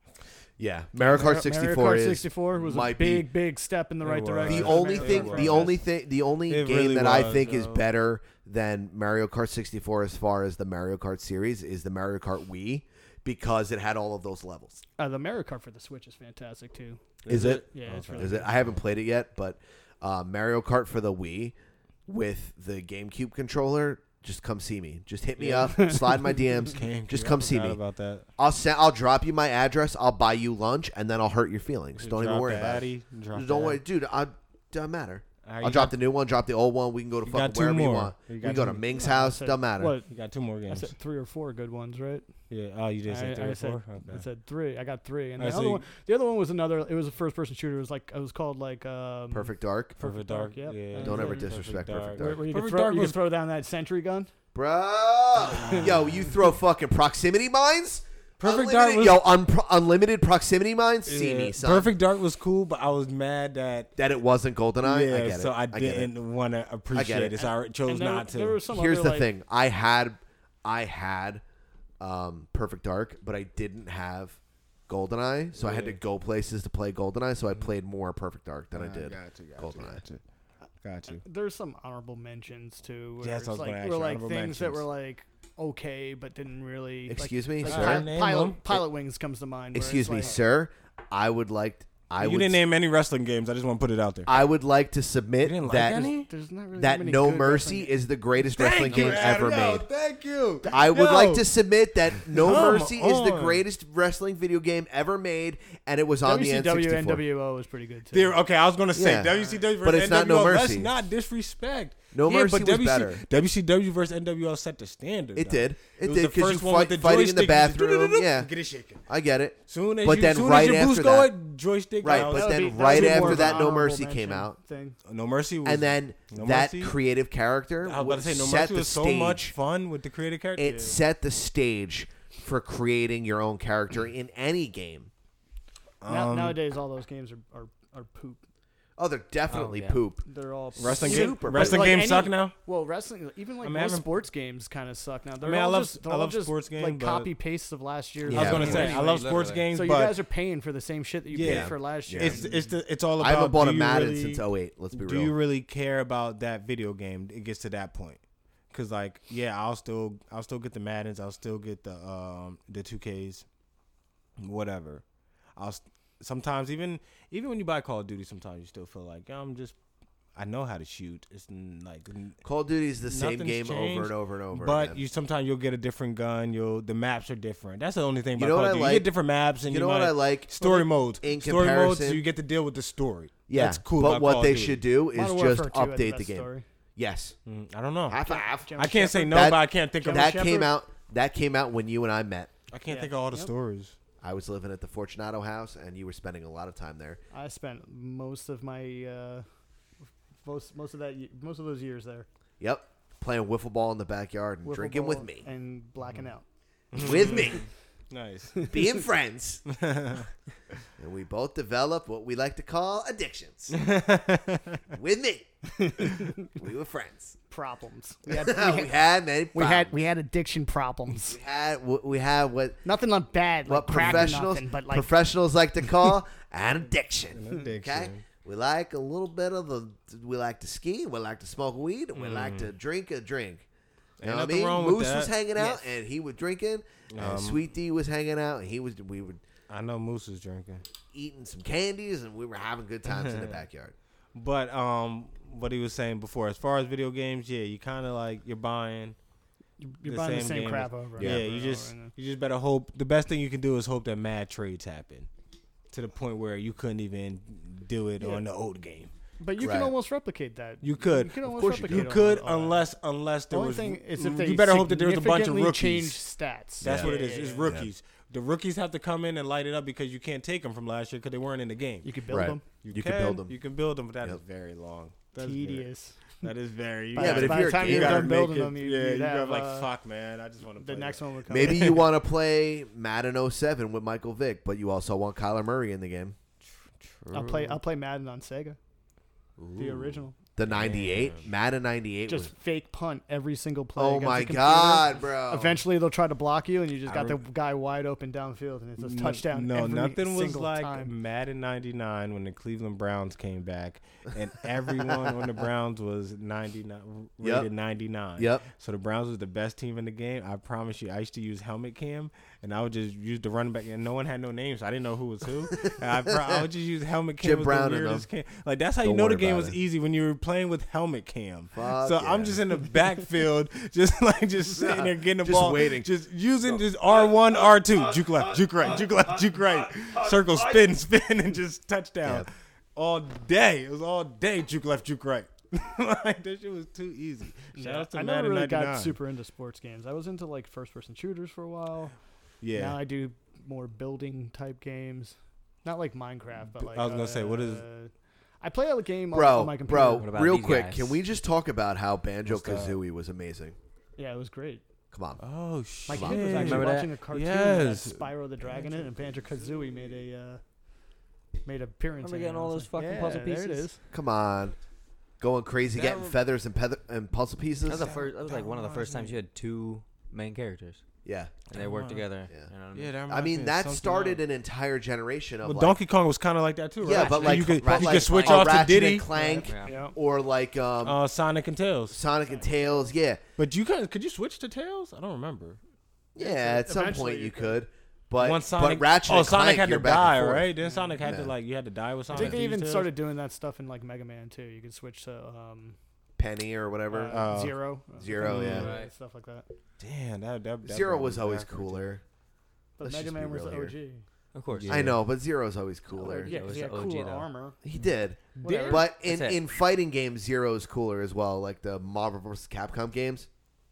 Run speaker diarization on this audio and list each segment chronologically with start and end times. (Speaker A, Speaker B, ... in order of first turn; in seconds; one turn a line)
Speaker A: 0.6-3.3
Speaker B: 1.0-5.8
Speaker C: 4.0-5.8
Speaker A: 4.5-14.8
Speaker C: 6.5-7.8
Speaker B: 15.0-17.0
Speaker C: 17.2-18.8
Speaker A: 17.3-21.5
Speaker B: 17.7-18.6
Speaker A: 22.1-27.8
Speaker C: 25.4-25.9
Speaker B: 25.8-26.4
Speaker C: 26.7-28.3
Speaker A: 28.4-39.9
Speaker C: 31.9-33.8
Speaker C: 35.5-36.0
Speaker C: 37.2-38.9
Speaker B: 38.9-40.1
Speaker C: 40.1-40.9
Speaker B: 40.7-42.3
Speaker C: 42.5-44.2
Speaker B: 43.1-51.5
Speaker C: 45.4-45.8
Speaker A: 49.3-50.0
Speaker C: 50.0-53.2
Speaker A: 51.0-52.4
Speaker B: 52.2-54.3
Speaker A: 54.5-61.9
Speaker C: 55.5-56.0
Speaker C: 58.4-59.2
Speaker C: 61.0-63.9
Speaker A: 64.0-66.1
Speaker C: 64.8-68.6
Speaker A: 66.9-67.4
Speaker B: 67.8-69.3
Speaker A: 68.7-71.4
Speaker A: 72.0-80.0
Speaker C: 75.5-76.0
Speaker C: 78.7-80.2
Speaker C: 80.8-81.2
Speaker B: 81.1-90.4
Speaker C: 83.2-84.8
Speaker A: 87.1-88.1
Speaker C: 87.6-88.8
Speaker A: 89.7-92.6
Speaker C: 92.2-94.3
Speaker A: 94.2-96.1
Speaker C: 95.4-96.3
Speaker B: 96.3-97.9
Speaker A: 96.8-99.9
Speaker C: 98.4-101.5
Speaker A: 100.7-107.2
Speaker C: 102.3-103.6
Speaker B: 106.2-108.4
Speaker C: 108.1-119.0
Speaker A: 108.9-110.9
Speaker A: 112.1-113.2
Speaker A: 115.3-118.5
Speaker A: 119.1-121.3
Speaker C: 119.7-123.7
Speaker A: 122.0-124.6
Speaker B: 122.0-125.0
Speaker C: 125.0-127.0
Speaker A: 125.6-129.5
Speaker C: 127.8-131.0
Speaker A: 130.6-135.1
Speaker C: 136.0-136.6
Speaker B: 136.1-138.4
Speaker A: 139.0-140.2
Speaker D: 139.5-140.0
Speaker B: 140.2-149.0
Speaker C: 140.8-142.5
Speaker A: 140.8-142.2
Speaker C: 143.6-144.1
Speaker C: 145.4-147.3
Speaker C: 148.3-150.1
Speaker A: 148.3-149.0
Speaker D: 148.4-149.7
Speaker B: 149.7-152.8
Speaker C: 151.3-158.2
Speaker A: 151.4-152.4
Speaker A: 153.2-155.3
Speaker C: 158.7-163.4
Speaker C: 164.4-165.0
Speaker C: 165.6-169.8
Speaker C: 170.3-172.4
Speaker A: 172.4-175.0
Speaker C: 173.0-184.8
Speaker A: 178.3-179.1
Speaker A: 179.6-182.2
Speaker A: 183.5-187.3
Speaker B: 185.1-186.6
Speaker C: 187.4-188.2
Speaker A: 188.1-192.5
Speaker B: 188.2-190.7
Speaker C: 188.8-190.4
Speaker C: 192.7-193.9
Speaker B: 192.9-193.5
Speaker A: 194.2-197.2
Speaker B: 197.3-199.4
Speaker B: 200.4-202.3
Speaker A: 202.6-205.5
Speaker B: 204.6-206.4
Speaker C: 206.9-208.7
Speaker A: 206.9-207.6
Speaker B: 207.1-207.5
Speaker A: 208.7-209.6
Speaker C: 209.7-210.3
Speaker A: 211.0-213.8
Speaker C: 213.7-214.8
Speaker A: 214.9-215.5
Speaker B: 215.8-216.4
Speaker A: 216.6-217.4
Speaker B: 217.5-218.9
Speaker A: 218.3-219.9
Speaker B: 219.5-221.4
Speaker A: 221.3-222.8
Speaker B: 222.8-225.1
Speaker A: 223.7-233.6
Speaker C: 223.9-224.3
Speaker C: 227.3-228.2
Speaker C: 232.1-232.7
Speaker C: 234.2-235.3
Speaker A: 234.2-239.4
Speaker C: 237.1-237.6
Speaker C: 239.7-240.8
Speaker A: 241.1-243.9
Speaker C: 243.1-243.6
Speaker C: 244.3-249.2
Speaker B: 249.8-252.1
Speaker C: 250.0-255.3
Speaker A: 251.2-251.4
Speaker C: 255.9-259.1
Speaker B: 258.2-258.4
Speaker B: 259.4-262.9
Speaker A: 259.6-259.9
Speaker C: 260.8-266.2
Speaker A: 261.5-262.1
Speaker B: 263.5-267.7
Speaker C: 266.8-272.1
Speaker A: 266.8-267.1
Speaker B: 272.0-272.6
Speaker A: 272.3-273.6
Speaker C: 272.8-275.9
Speaker B: 275.4-276.2
Speaker C: 276.4-282.0
Speaker B: 277.1-279.9
Speaker A: 277.1-278.4
Speaker B: 280.8-282.0
Speaker A: 281.5-286.4
Speaker C: 287.0-287.8
Speaker B: 287.3-288.8
Speaker C: 289.6-291.5
Speaker B: 289.8-290.3
Speaker A: 290.6-292.5
Speaker B: 292.3-301.1
Speaker A: 293.9-295.8
Speaker C: 297.1-297.4
Speaker C: 299.0-339.1
Speaker A: 305.1-305.4
Speaker A: 307.4-307.7
Speaker A: 308.4-308.6
Speaker A: 315.7-316.6
Speaker A: 317.4-318.3
Speaker A: 319.0-319.8
Speaker A: 321.7-322.6
Speaker A: 324.7-326.1
Speaker B: 337.7-342.1
Speaker C: 342.6-343.0
Speaker B: 342.7-350.3
Speaker C: 346.7-347.8
Speaker A: 349.3-353.8
Speaker D: 350.2-351.2
Speaker C: 352.4-353.0
Speaker B: 354.2-354.8
Speaker A: 355.1-355.4
Speaker C: 355.4-360.1
Speaker B: 356.1-360.6
Speaker A: 356.1-356.4
Speaker D: 356.5-357.1
Speaker B: 361.6-364.0
Speaker D: 362.2-363.9
Speaker A: 364.1-364.7
Speaker A: 365.4-368.1
Speaker C: 365.9-366.4
Speaker D: 367.9-371.0
Speaker C: 368.5-369.3
Speaker A: 371.2-371.5
Speaker C: 371.7-372.2
Speaker D: 371.7-373.1
Speaker C: 372.9-374.4
Speaker A: 373.3-376.0
Speaker C: 375.6-379.3
Speaker A: 377.0-381.2
Speaker D: 377.1-378.7
Speaker B: 379.3-380.1
Speaker D: 379.6-379.9
Speaker C: 381.0-382.2
Speaker A: 382.1-383.4
Speaker B: 382.5-383.0
Speaker C: 383.6-385.8
Speaker A: 386.3-390.7
Speaker B: 386.4-387.8
Speaker C: 388.4-393.1
Speaker B: 390.8-391.2
Speaker A: 391.2-391.5
Speaker B: 392.3-396.0
Speaker A: 392.3-392.6
Speaker A: 396.4-397.6
Speaker B: 397.1-399.7
Speaker C: 397.3-397.8
Speaker A: 398.2-398.9
Speaker C: 398.4-398.9
Speaker D: 398.8-399.1
Speaker C: 400.0-402.1
Speaker A: 400.8-402.2
Speaker B: 403.0-404.2
Speaker A: 403.0-403.9
Speaker D: 404.5-404.9
Speaker C: 404.7-405.2
Speaker A: 404.9-406.6
Speaker B: 406.1-407.8
Speaker D: 406.4-407.5
Speaker A: 407.8-413.5
Speaker C: 408.6-408.9
Speaker B: 408.6-409.0
Speaker D: 408.7-409.6